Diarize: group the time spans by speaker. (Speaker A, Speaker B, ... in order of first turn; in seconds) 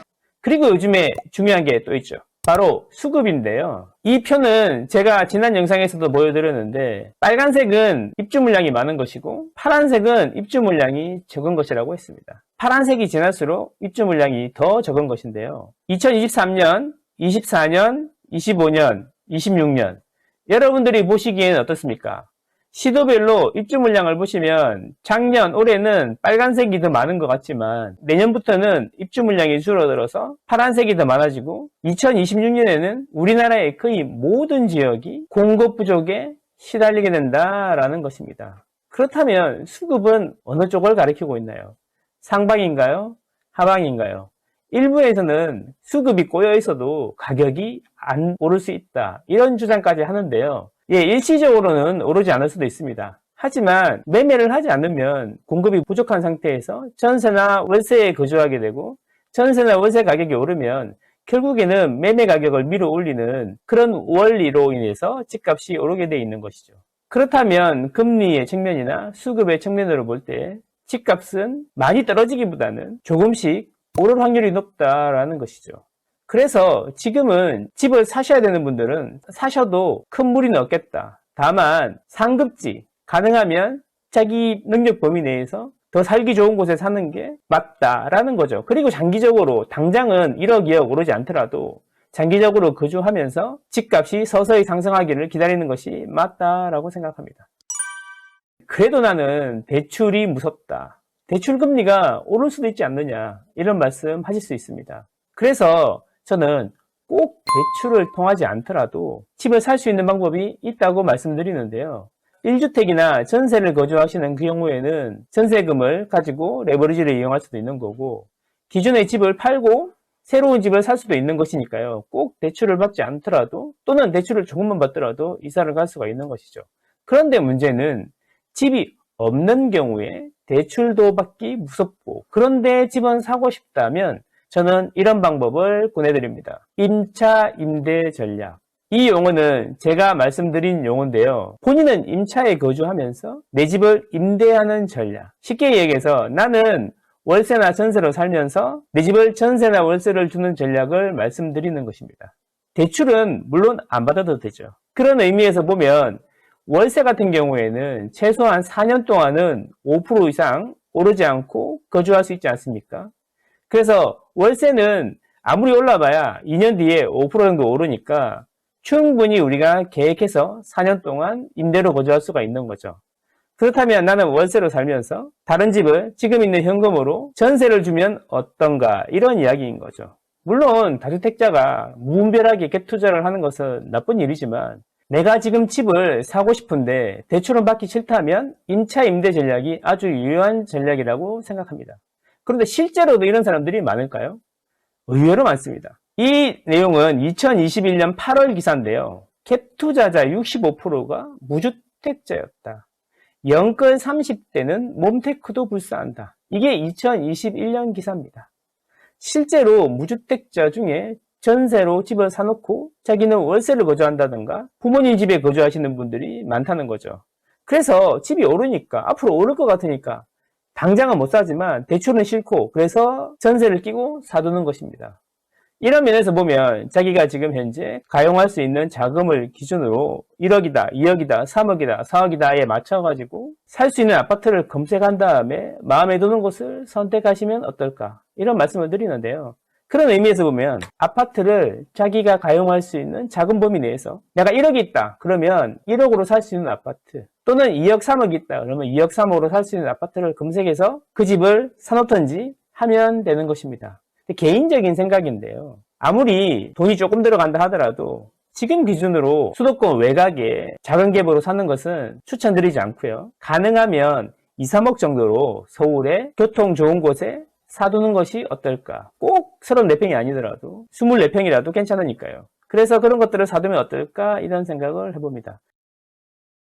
Speaker A: 0.4-97.5, 98.7-163.1, 163.7-173.0, 173.6-194.4, 195.1-202.8, 203.4-208.5, 209.2-225.2, 225.8-275.6